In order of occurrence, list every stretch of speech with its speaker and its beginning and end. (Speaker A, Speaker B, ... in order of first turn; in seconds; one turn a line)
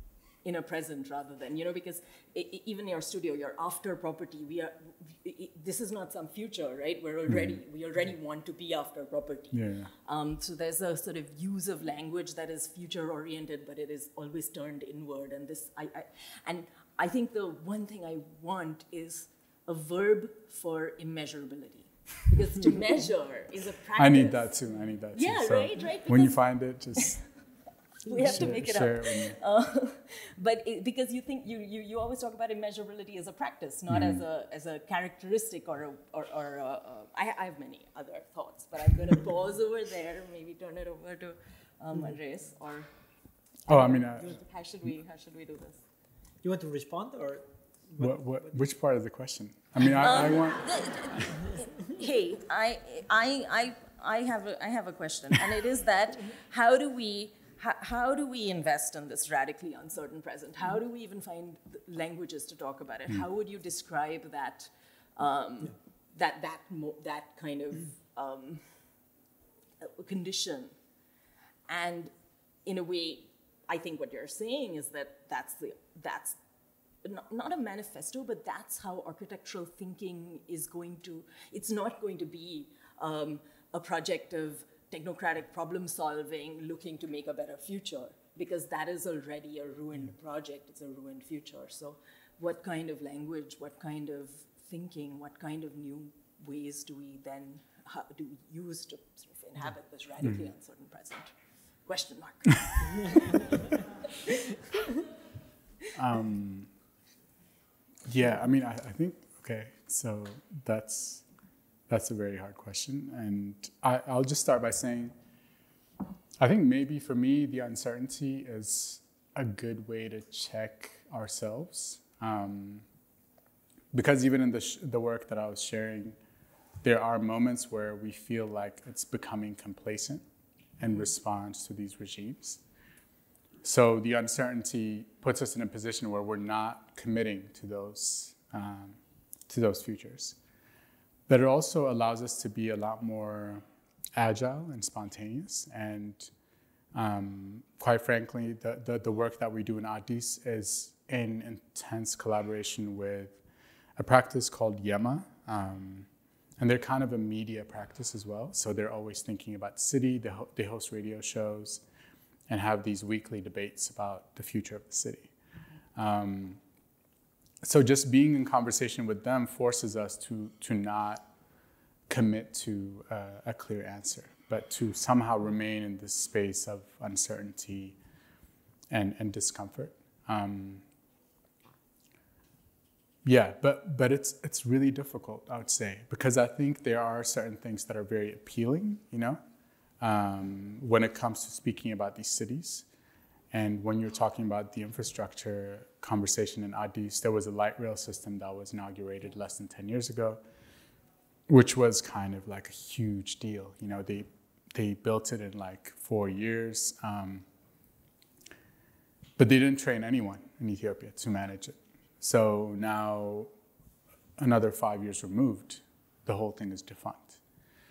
Speaker A: 0.4-24.6
Speaker B: 7.3-7.6
Speaker B: 9.5-9.9
Speaker B: 23.9-27.2
Speaker A: 25.1-26.4
Speaker A: 28.1-42.9
Speaker B: 28.1-29.4
Speaker B: 33.9-34.2
Speaker A: 43.7-45.8
Speaker B: 43.7-44.4
Speaker C: 46.4-48.7
Speaker B: 48.0-51.2
Speaker A: 49.8-68.7
Speaker A: 69.8-70.7
Speaker A: 71.7-72.1
Speaker A: 72.6-76.4
Speaker A: 77.0-101.3
Speaker A: 101.9-104.6
Speaker B: 105.9-106.7
Speaker B: 108.1-111.2
Speaker B: 111.9-115.1
Speaker B: 116.4-122.8
Speaker B: 123.9-126.2
Speaker B: 126.8-130.2
Speaker B: 130.8-132.6
Speaker B: 133.6-140.4
Speaker B: 141.3-143.6
Speaker B: 144.1-146.3
Speaker B: 146.9-153.4
Speaker B: 154.0-161.8
Speaker B: 162.5-165.3
Speaker B: 165.9-166.6
Speaker B: 167.6-171.3
Speaker B: 172.1-178.0
Speaker B: 178.9-180.8
Speaker B: 183.2-189.4
Speaker B: 190.0-192.9
Speaker B: 193.5-200.4
Speaker B: 201.5-207.4
Speaker B: 209.4-213.5
Speaker B: 214.4-217.4